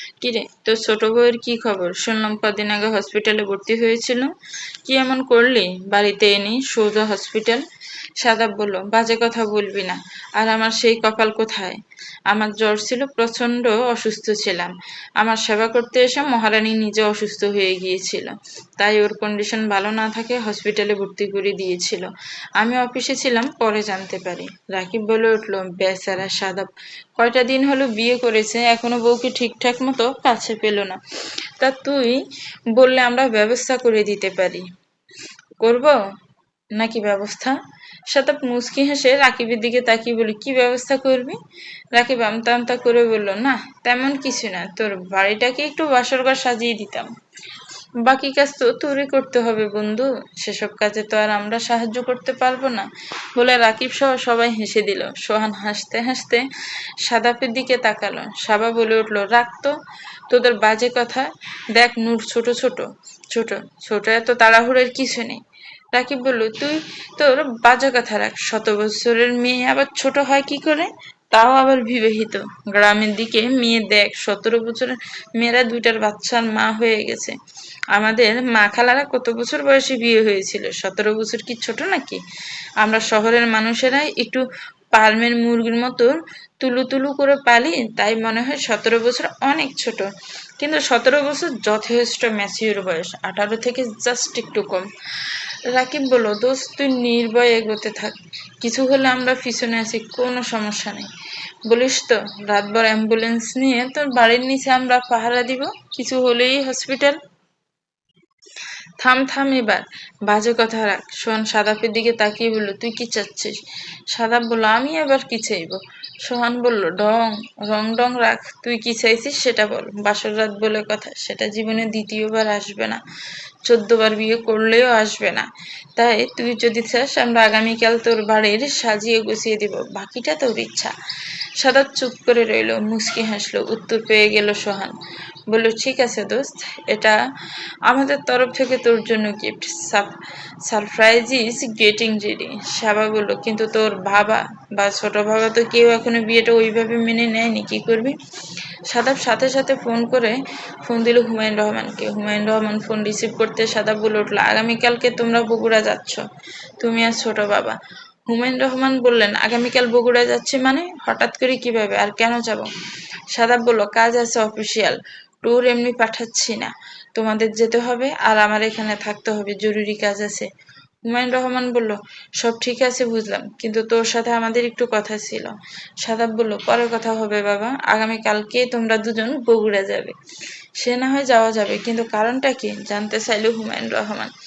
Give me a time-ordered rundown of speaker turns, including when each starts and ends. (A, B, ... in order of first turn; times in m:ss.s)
0:00.2-0:04.3 A
0:04.8-0:07.6 A
0:08.2-0:31.0 A
0:31.6-0:34.7 A
0:35.6-0:36.0 A
0:36.7-0:41.4 A
0:41.9-0:47.1 A
0:48.0-0:56.5 A
0:57.0-0:59.8 A
1:00.3-1:05.4 A
1:05.9-1:17.4 A
1:17.9-1:22.2 A
1:22.8-1:30.1 A
1:30.6-1:41.1 A
1:41.7-1:47.2 A
1:49.0-1:53.5 A
1:54.1-2:03.0 A
2:03.6-2:10.9 A
2:11.6-2:14.9 A
2:15.5-2:17.2 A
2:17.9-2:20.1 A
2:20.7-2:28.2 A
2:28.9-2:36.2 A
2:36.8-2:37.8 A
2:38.3-2:42.7 A
2:43.3-2:50.5 A
2:51.0-3:00.2 A
3:00.8-3:04.3 A